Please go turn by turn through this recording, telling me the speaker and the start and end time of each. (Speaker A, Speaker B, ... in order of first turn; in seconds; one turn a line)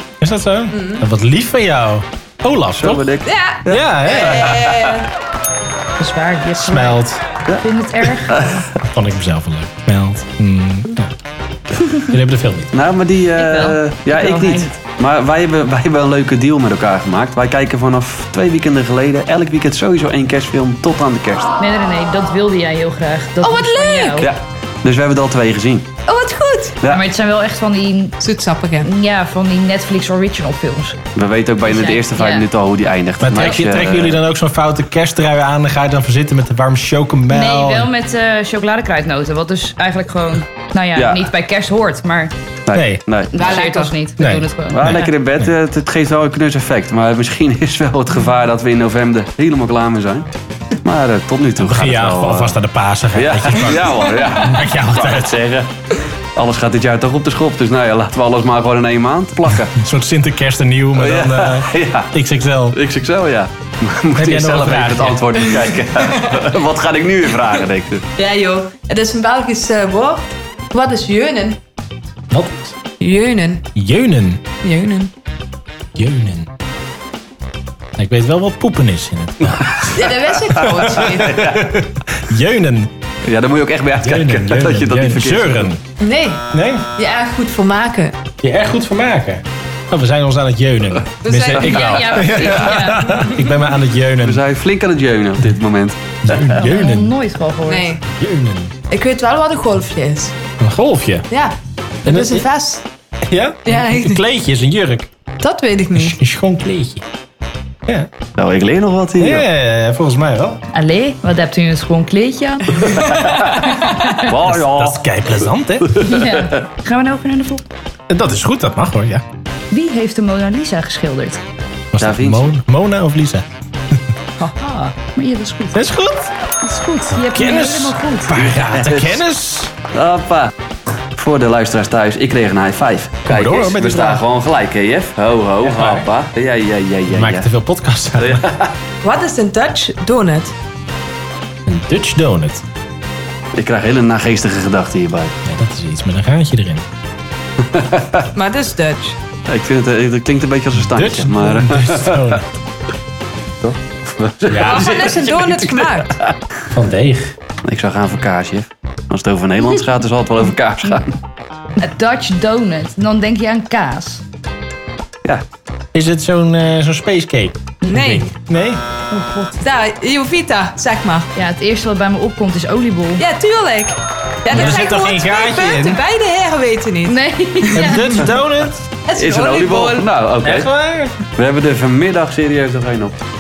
Speaker A: 0.2-3.1
Speaker B: 0.7-1.0
Speaker C: 2.8-5.0
Speaker B: 3.2-5.1
Speaker A: 3.7-4.6
Speaker D: 6.0-7.0
Speaker A: 6.6-7.2
Speaker D: 7.6-8.6
Speaker C: 8.2-8.7
Speaker A: 8.8-11.1
Speaker D: 11.8-12.1
Speaker A: 11.9-12.7
Speaker C: 12.7-21.5
Speaker D: 13.4-14.7
Speaker D: 21.6-24.3
Speaker B: 23.4-24.3
Speaker C: 24.2-25.9
Speaker B: 26.1-26.8
Speaker D: 26.8-28.2
Speaker B: 28.2-28.9
Speaker D: 28.8-31.0
Speaker C: 31.1-34.2
Speaker D: 31.6-32.5
Speaker A: 33.2-37.9
Speaker D: 37.3-42.3
Speaker C: 41.0-41.3
Speaker C: 42.7-43.4
Speaker A: 42.7-43.0
Speaker D: 43.3-45.1
Speaker B: 43.3-44.0
Speaker A: 44.2-45.5
Speaker C: 44.7-50.3
Speaker C: 50.8-52.6
Speaker A: 51.6-55.4
Speaker C: 53.1-55.7
Speaker C: 56.4-59.8
Speaker A: 59.7-62.8
Speaker C: 61.0-62.2
Speaker C: 62.7-68.0
Speaker A: 64.2-65.4
Speaker B: 68.2-71.6
Speaker A: 72.3-72.8
Speaker B: 73.0-73.7
Speaker A: 73.8-74.4
Speaker B: 74.6-75.1
Speaker A: 76.0-76.5
Speaker A: 78.0-82.9
Speaker B: 79.9-81.5
Speaker C: 80.7-81.8
Speaker C: 83.2-85.7
Speaker A: 84.0-85.8
Speaker B: 86.0-88.2
Speaker A: 86.5-86.9
Speaker A: 88.4-94.4
Speaker B: 91.2-92.1
Speaker C: 91.6-92.8
Speaker D: 91.6-93.3
Speaker C: 94.2-96.6
Speaker A: 96.2-97.1
Speaker D: 96.5-97.9
Speaker B: 97.7-98.0
Speaker A: 98.1-98.7
Speaker B: 98.9-100.3
Speaker A: 100.6-101.3
Speaker B: 101.3-102.8
Speaker A: 102.1-102.5
Speaker A: 103.3-105.1
Speaker B: 103.7-104.2
Speaker B: 105.4-106.2
Speaker A: 106.0-107.0
Speaker C: 108.4-109.5
Speaker A: 109.2-110.6
Speaker D: 110.7-113.1
Speaker C: 112.8-113.6
Speaker D: 113.7-114.3
Speaker C: 114.2-115.0
Speaker A: 114.3-116.0
Speaker C: 115.8-116.5
Speaker D: 116.0-117.7
Speaker A: 118.1-119.2
Speaker D: 119.7-121.4
Speaker A: 121.9-123.5
Speaker C: 122.0-122.5
Speaker D: 124.4-125.9
Speaker A: 125.7-126.3
Speaker D: 126.6-128.6
Speaker A: 127.2-129.7
Speaker C: 128.4-129.2
Speaker C: 129.9-130.5
Speaker C: 131.2-137.5
Speaker A: 133.3-134.2
Speaker A: 135.6-136.1
Speaker A: 137.1-138.5
Speaker C: 138.2-138.7
Speaker B: 139.0-140.5
Speaker A: 141.7-142.6
Speaker C: 143.5-145.3
Speaker A: 145.4-146.8
Speaker C: 147.6-148.3
Speaker B: 148.3-149.2
Speaker C: 149.5-152.4
Speaker A: 150.8-152.4
Speaker C: 153.6-156.3
Speaker A: 154.5-155.6
Speaker B: 154.6-156.2
Speaker A: 156.7-157.3
Speaker C: 157.6-161.1
Speaker D: 161.8-164.2
Speaker A: 165.9-168.8
Speaker B: 167.9-168.3
Speaker D: 169.1-169.6
Speaker B: 169.6-171.3
Speaker D: 171.3-173.2
Speaker B: 173.2-178.2
Speaker A: 174.5-176.0
Speaker D: 177.1-178.3
Speaker A: 177.7-178.8
Speaker B: 179.1-180.1
Speaker C: 179.2-180.7
Speaker A: 180.4-181.2
Speaker C: 181.4-183.2